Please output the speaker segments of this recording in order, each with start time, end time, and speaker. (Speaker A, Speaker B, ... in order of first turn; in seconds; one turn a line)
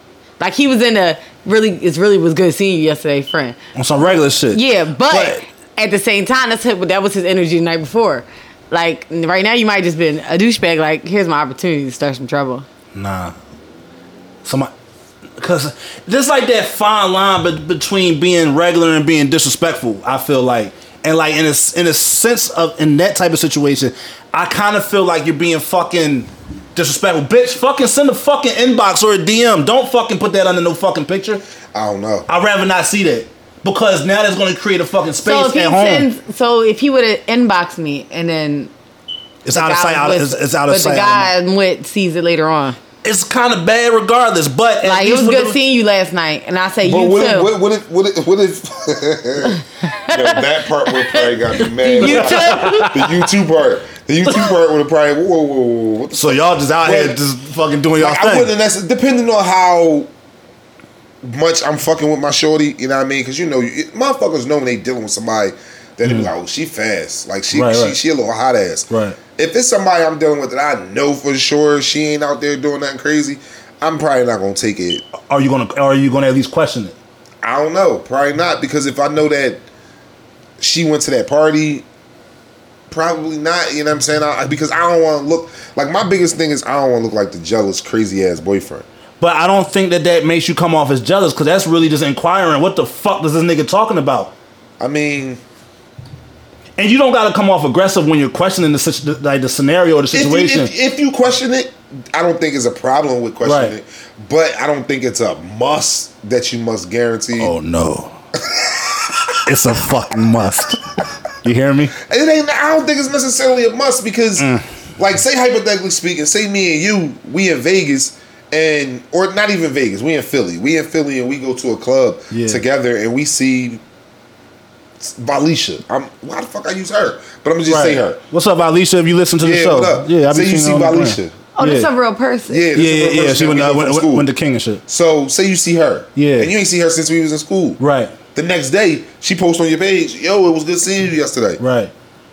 Speaker A: 0.4-3.6
Speaker B: 3.8-5.4
Speaker A: 4.5-12.7
Speaker B: 12.9-13.4
Speaker B: 14.4-14.7
Speaker B: 15.4-31.4
Speaker C: 31.7-32.3
Speaker B: 32.3-36.1
Speaker A: 35.2-38.7
Speaker B: 39.5-41.3
Speaker A: 39.5-42.8
Speaker B: 43.0-45.6
Speaker A: 44.8-47.5
Speaker C: 46.8-57.2
Speaker A: 49.8-53.0
Speaker B: 52.0-53.1
Speaker B: 56.1-58.5
Speaker C: 58.0-60.1
Speaker C: 61.2-75.0
Speaker B: 66.0-66.3
Speaker B: 67.5-68.0
Speaker B: 68.9-69.2
Speaker B: 75.2-77.0
Speaker C: 77.4-79.7
Speaker C: 80.6-81.9
Speaker C: 82.9-88.9
Speaker B: 89.2-94.3
Speaker C: 94.8-95.4
Speaker B: 96.8-100.7
Speaker C: 100.1-107.5
Speaker B: 103.4-103.8
Speaker B: 107.4-108.2
Speaker C: 108.4-109.4
Speaker B: 109.5-112.0
Speaker C: 112.0-123.8
Speaker B: 114.4-114.7
Speaker B: 122.3-122.6
Speaker C: 125.0-128.2
Speaker B: 127.7-131.9
Speaker C: 129.4-131.4
Speaker A: 131.6-132.7
Speaker C: 132.5-134.3
Speaker B: 132.8-134.8
Speaker C: 134.9-137.8
Speaker B: 136.2-136.5
Speaker B: 137.8-138.2
Speaker C: 138.3-141.6
Speaker B: 141.6-141.9